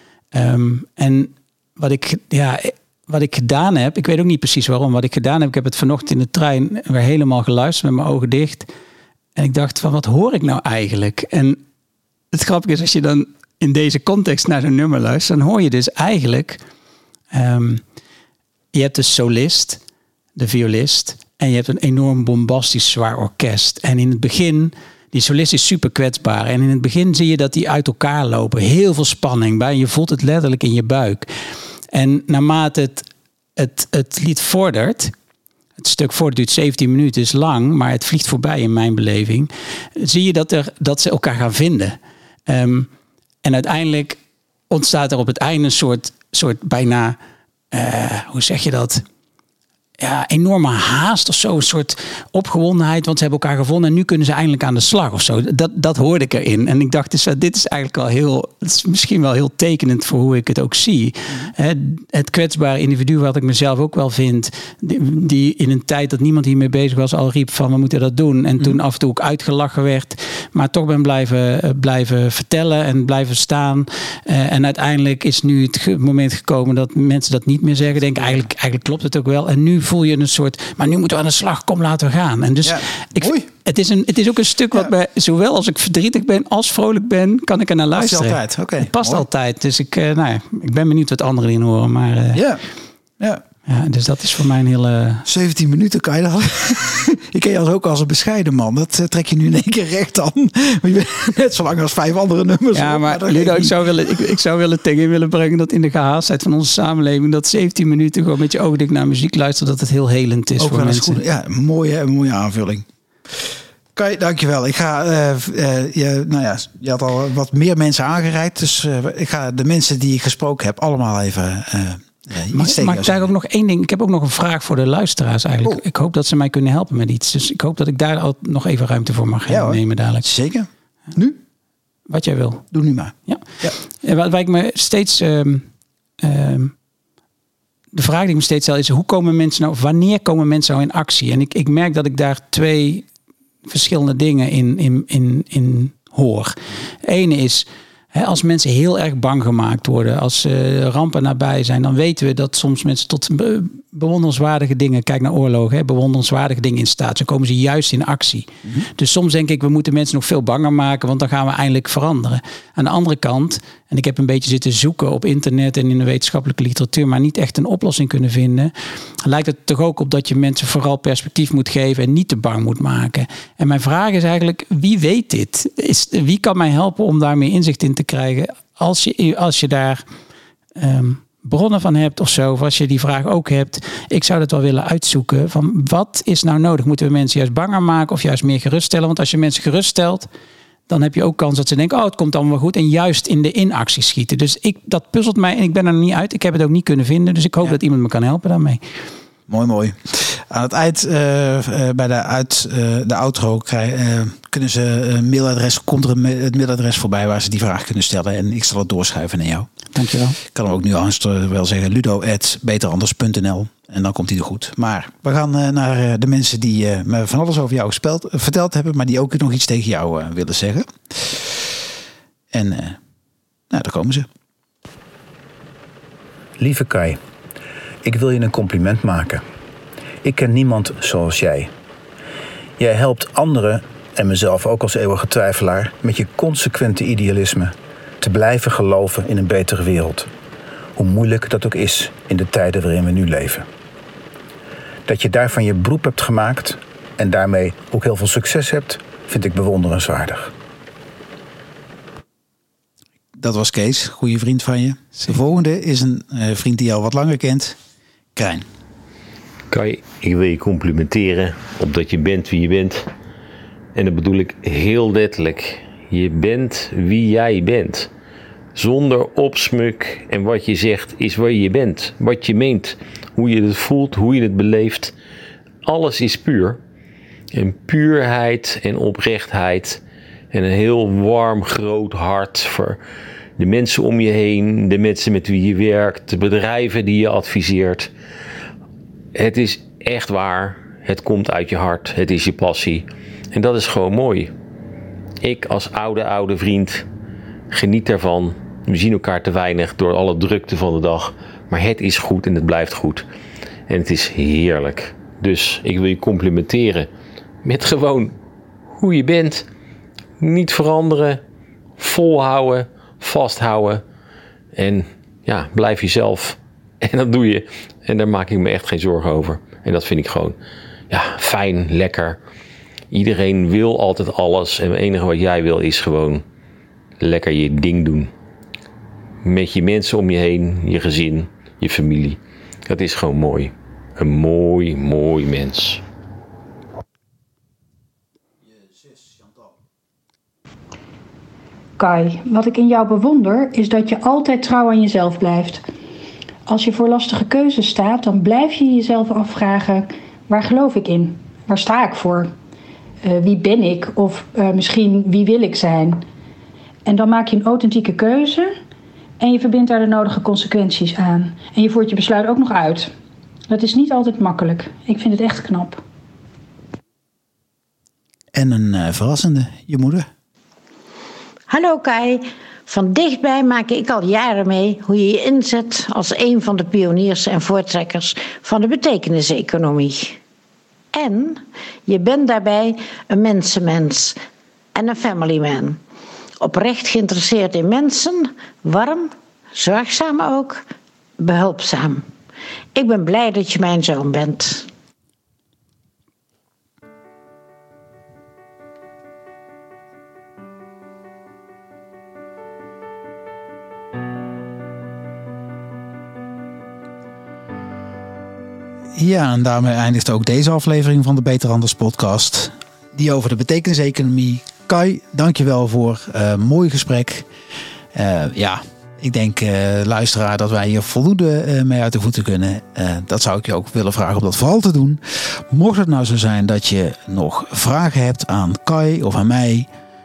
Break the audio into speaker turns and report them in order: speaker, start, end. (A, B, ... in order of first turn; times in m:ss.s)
0:00.3-0:08.7 A
0:09.4-0:11.6 A
0:12.3-0:16.6 A
0:17.3-0:17.8 A
0:18.7-0:19.8 A
0:20.4-0:31.3 A
0:31.9-0:35.1 A
0:35.8-0:42.9 A
0:43.4-0:47.2 A
0:47.7-0:49.0 A
0:50.0-1:32.4 A
1:17.9-1:18.5 B
1:22.6-1:23.5 B
1:28.0-1:29.2 B
1:32.3-1:32.6 B
1:33.7-1:35.2 A
1:35.2-1:43.8 B
1:42.7-1:51.2 A
1:50.6-2:03.3 B
2:02.5-2:10.3 A
2:09.5-2:11.4 B
2:12.1-2:12.7 A
2:12.7-2:13.8 B
2:13.3-2:15.7 A
2:16.2-2:16.7 A
2:17.9-2:23.0 A
2:23.7-3:00.0 A
3:00.8-3:10.3 A
3:10.9-3:18.8 A
3:19.5-3:29.7 B
3:29.9-3:30.4 A
3:30.4-3:41.7 B
3:42.5-3:43.0 B
3:43.7-3:44.3 B
3:46.6-3:47.2 C
3:48.0-3:49.4 C
3:50.2-3:51.7 C
3:52.8-4:00.3 C
4:01.0-4:03.7 C
4:05.1-4:10.5 C
4:13.4-4:17.8 B
4:18.4-4:18.6 B
4:19.7-4:23.1 D
4:24.0-4:28.1 D
4:28.8-4:35.1 D
4:35.8-4:36.8 D
4:37.5-4:43.0 D
4:43.6-4:48.1 D
4:49.4-4:54.5 D
4:55.4-4:57.1 D
4:57.7-5:03.2 D
5:03.9-5:07.1 D
5:07.6-5:08.4 D
5:08.9-5:09.6 D
5:10.4-5:11.4 D
5:12.0-5:14.0 D
5:14.7-5:20.6 D
5:21.1-5:22.4 D
5:23.1-5:26.4 D
5:27.2-5:28.3 D
5:29.4-5:36.0 D
5:42.0-5:45.8 E
5:46.7-5:52.5 E
5:53.2-5:56.2 E
5:57.1-5:58.8 E
5:59.4-6:03.1 E
6:03.7-6:06.0 E
6:08.5-6:10.3 B
6:11.7-6:20.4 F
6:21.1-6:24.4 F
6:25.0-6:26.0 F
6:26.6-6:30.8 F
6:31.4-6:32.2 F
6:33.0-6:34.9 F
6:49.2-6:57.5 B
6:58.1-7:09.9 B